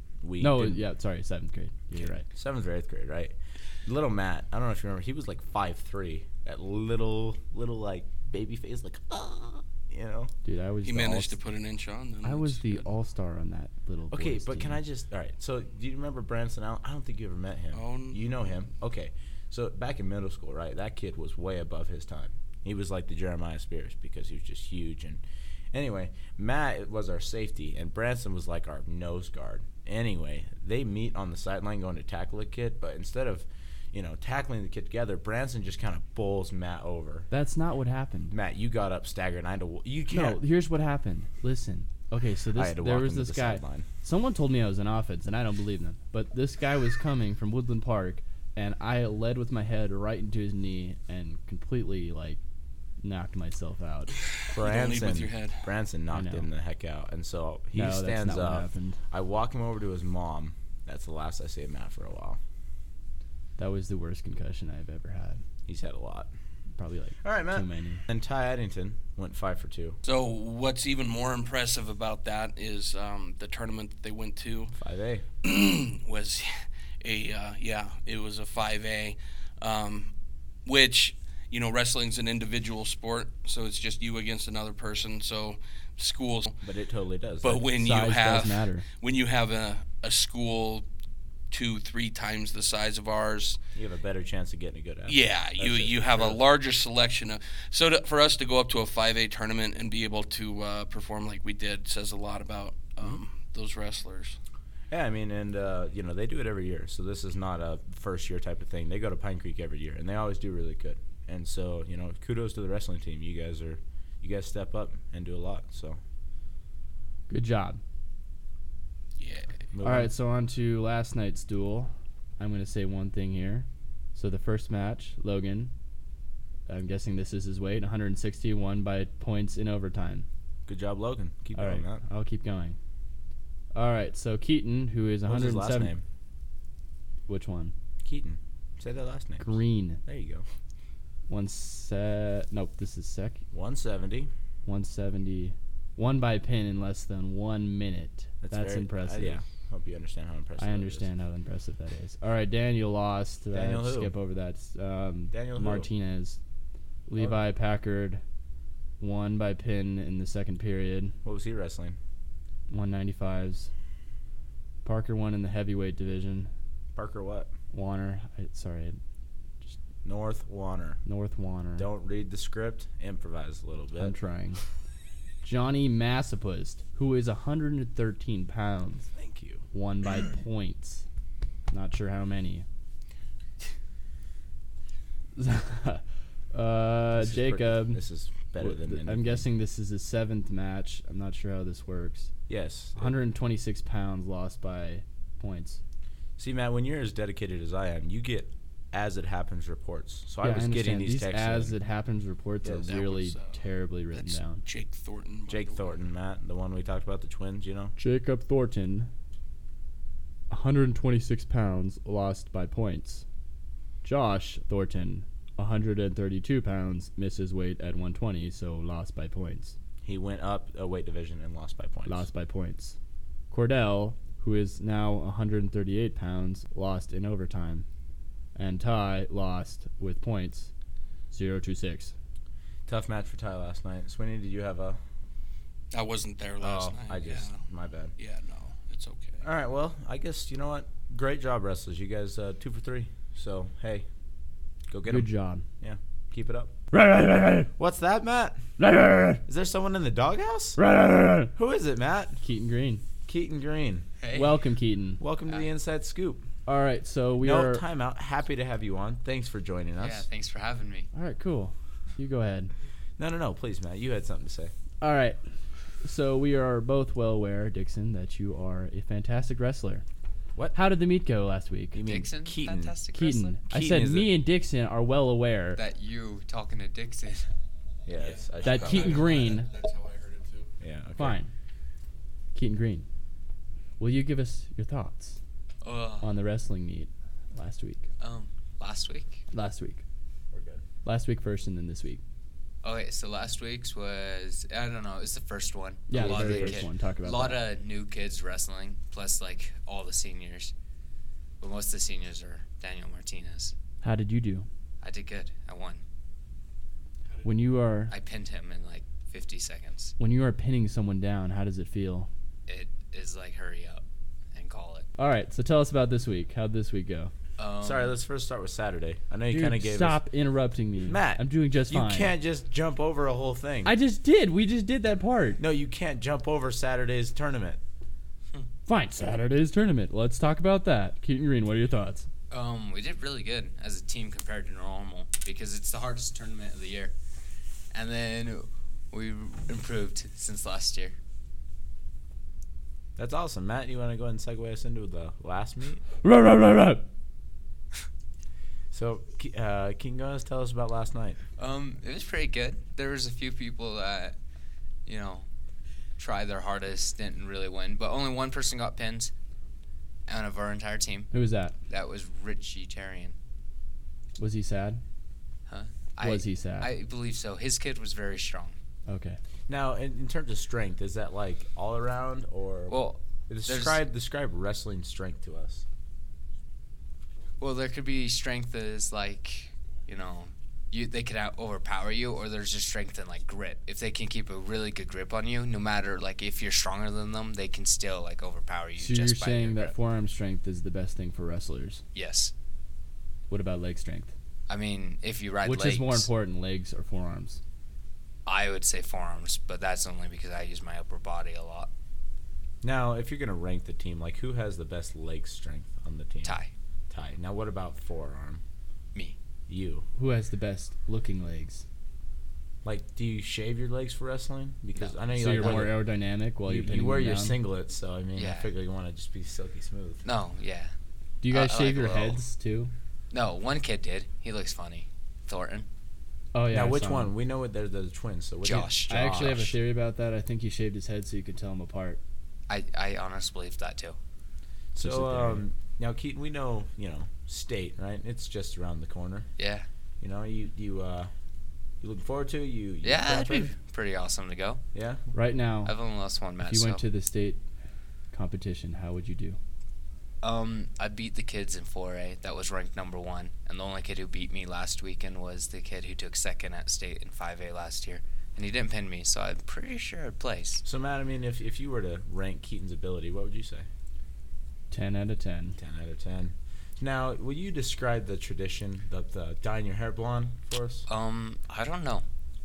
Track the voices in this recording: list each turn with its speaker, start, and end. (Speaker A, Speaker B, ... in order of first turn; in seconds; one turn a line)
Speaker A: 0.2-0.8
Speaker B: 0.4-2.3
Speaker A: 2.0-10.3
Speaker B: 10.4-11.4
Speaker C: 10.8-12.8
Speaker B: 12.2-14.8
Speaker A: 14.1-25.2
Speaker C: 17.7-18.2
Speaker A: 25.7-37.3
Speaker B: 37.3-38.3
Speaker A: 38.3-40.4
Speaker B: 40.1-52.4
Speaker A: 42.5-43.9
Speaker B: 53.0-54.1
Speaker C: 54.5-55.6
Speaker A: 54.5-62.4
Speaker B: 56.1-56.5
Speaker B: 57.7-59.0
Speaker B: 63.6-65.4
Speaker A: 65.7-66.3
Speaker B: 66.8-68.0
Speaker A: 67.2-70.0
Speaker C: 70.0-74.7
Speaker A: 74.8-75.2
Speaker C: 75.4-80.1
Speaker C: 80.7-86.6
Speaker A: 86.6-87.7
Speaker C: 87.4-90.9
Speaker B: 87.8-88.9
Speaker C: 91.5-93.6
Speaker A: 93.8-96.4
Speaker C: 95.1-104.4
Speaker A: 104.9-116.0
Speaker B: 117.3-117.8
Speaker C: 119.2-119.6
Speaker A: 119.7-120.1
Speaker B: 119.8-125.7
Speaker B: 126.7-130.3
Speaker A: 130.7-132.0
Speaker B: 131.6-132.8
Speaker B: 133.7-135.9
Speaker A: 135.2-136.0
Speaker B: 137.3-137.7
Speaker A: 138.0-139.5
Speaker B: 139.4-140.0
Speaker A: 140.1-140.4
Speaker B: 141.3-143.4
Speaker A: 143.5-144.3
Speaker B: 144.7-149.4
Speaker A: 148.4-151.1
Speaker B: 150.6-156.4
Speaker A: 153.5-154.1
Speaker A: 155.3-155.9
Speaker B: 157.1-158.2
Speaker B: 159.0-161.2
Speaker A: 161.2-162.0
Speaker B: 162.7-163.7
Speaker B: 164.8-166.5
Speaker A: 167.0-167.5
Speaker B: 167.7-169.0
Speaker A: 170.0-171.0
Speaker B: 171.1-171.9
Speaker A: 171.8-174.2
Speaker B: 174.0-174.6
Speaker B: 175.4-179.1
Speaker A: 179.2-179.6
Speaker B: 179.7-181.1
Speaker B: 181.7-182.7
Speaker B: 185.4-188.0
Speaker A: 187.2-189.5
Speaker B: 188.6-192.3
Speaker A: 192.5-193.2
Speaker B: 193.0-195.8
Speaker A: 196.4-201.8
Speaker B: 200.4-204.6
Speaker A: 202.6-202.9
Speaker C: 202.9-203.6
Speaker C: 204.1-206.0
Speaker A: 205.5-207.9
Speaker B: 208.0-209.1
Speaker B: 210.5-213.2
Speaker B: 214.0-219.8
Speaker A: 220.0-222.3
Speaker B: 222.1-223.0
Speaker B: 223.5-227.9
Speaker B: 228.6-230.7
Speaker B: 231.3-232.1
Speaker A: 232.9-235.0
Speaker C: 235.9-237.6
Speaker A: 236.6-238.1
Speaker C: 238.2-239.4
Speaker A: 239.4-244.1
Speaker A: 244.9-246.7
Speaker B: 245.1-245.7
Speaker B: 246.9-247.7
Speaker A: 247.8-248.6
Speaker B: 248.8-249.4
Speaker A: 249.5-250.8
Speaker B: 250.8-251.5
Speaker A: 251.5-252.4
Speaker B: 252.4-253.0
Speaker A: 253.3-254.1
Speaker D: 254.2-254.6
Speaker B: 254.3-255.2
Speaker A: 255.2-256.5
Speaker B: 256.7-257.8
Speaker A: 257.4-260.2
Speaker D: 260.0-261.1
Speaker B: 261.1-262.7
Speaker A: 263.2-264.7
Speaker B: 265.0-265.4
Speaker B: 266.0-270.1
Speaker B: 270.7-272.0
Speaker A: 271.9-273.0
Speaker D: 272.0-273.6
Speaker B: 273.1-275.8
Speaker A: 273.7-274.3
Speaker D: 275.8-277.5
Speaker A: 278.1-279.4
Speaker C: 278.2-280.7
Speaker B: 278.6-279.7
Speaker A: 280.8-281.4
Speaker B: 281.2-281.5
Speaker B: 282.6-283.1
Speaker B: 284.0-285.4
Speaker D: 285.8-286.3
Speaker B: 286.2-288.1
Speaker D: 288.2-289.4
Speaker B: 289.5-290.0
Speaker A: 290.5-290.8
Speaker B: 291.1-292.2
Speaker D: 292.8-300.7
Speaker B: 296.1-297.6
Speaker A: 296.1-296.9
Speaker D: 301.6-303.7
Speaker B: 304.0-304.7
Speaker D: 305.0-306.0
Speaker B: 307.4-308.1
Speaker D: 308.1-310.1
Speaker B: 310.2-312.3
Speaker D: 312.7-315.1
Speaker B: 315.2-317.3
Speaker D: 317.6-318.2
Speaker A: 317.8-320.2
Speaker B: 319.5-322.3
Speaker A: 321.0-323.9
Speaker B: 323.9-325.6
Speaker A: 325.6-327.8
Speaker B: 328.9-332.3
Speaker D: 332.5-337.1
Speaker D: 337.9-341.2
Speaker A: 343.2-346.0
Speaker B: 346.2-347.1
Speaker A: 348.9-351.4
Speaker D: 351.6-354.4
Speaker D: 355.1-355.5
Speaker D: 356.2-359.3
Speaker D: 360.3-361.3
Speaker B: 361.3-361.8
Speaker D: 361.9-363.4
Speaker B: 364.4-365.0
Speaker D: 365.7-368.8
Speaker B: 366.2-366.9
Speaker B: 369.1-369.4
Speaker A: 369.7-373.0
Speaker D: 372.9-374.0
Speaker A: 373.5-375.8
Speaker D: 377.6-389.9
Speaker B: 389.0-392.0
Speaker D: 392.1-392.5
Speaker B: 393.5-394.3
Speaker D: 394.7-396.3
Speaker B: 395.6-397.6
Speaker D: 398.5-401.9
Speaker A: 402.8-406.6
Speaker D: 406.4-406.7
Speaker A: 407.1-408.6
Speaker A: 409.7-410.1
Speaker B: 410.2-411.9
Speaker A: 412.8-416.0
Speaker D: 414.9-415.9
Speaker B: 415.4-417.6
Speaker A: 416.6-420.2
Speaker D: 418.4-418.7
Speaker D: 420.2-420.9
Speaker B: 421.4-422.9
Speaker D: 421.5-422.4
Speaker D: 423.3-425.9
Speaker B: 426.5-427.3
Speaker A: 426.7-429.4
Speaker D: 428.6-429.8
Speaker B: 429.1-432.2
Speaker D: 432.7-434.2
Speaker A: 434.9-439.5
Speaker D: 435.1-435.6
Speaker D: 439.6-439.9
Speaker A: 440.2-441.3
Speaker A: 442.0-443.7
Speaker D: 443.0-444.8
Speaker A: 444.9-445.2
Speaker B: 445.3-446.0
Speaker D: 445.9-447.0
Speaker B: 446.6-447.6
Speaker B: 448.3-449.6
Speaker D: 450.4-460.8
Speaker A: 460.8-463.9
Speaker B: 464.9-465.8
Speaker A: 465.8-471.1
Speaker D: 471.1-472.2